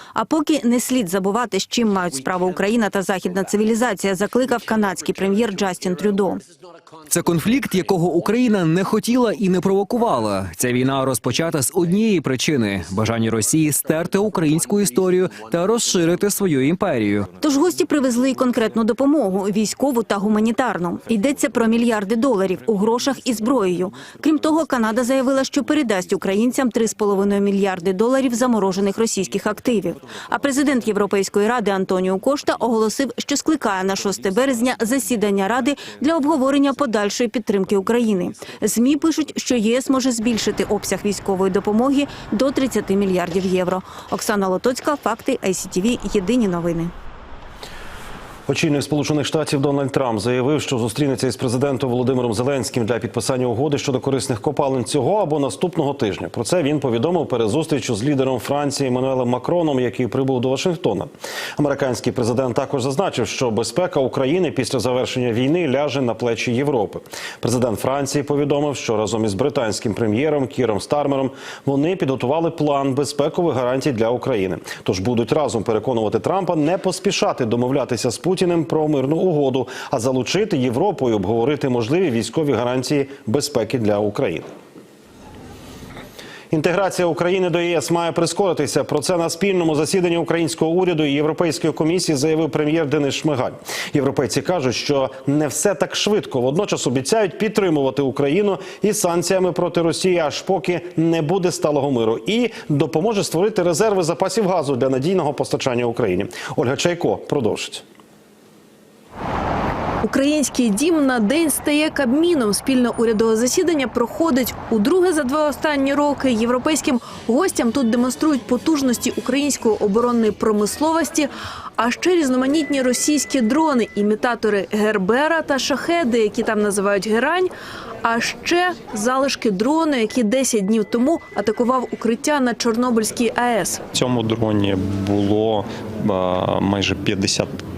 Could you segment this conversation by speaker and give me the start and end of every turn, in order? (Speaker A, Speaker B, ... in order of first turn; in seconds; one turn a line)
Speaker A: 0.1-6.4
Speaker B: 7.1-17.3
Speaker A: 17.4-46.9
Speaker C: 48.5-84.5
Speaker C: 86.5-107.8
Speaker D: 110.0-127.5
Speaker D: 128.0-133.8
Speaker E: 133.9-137.5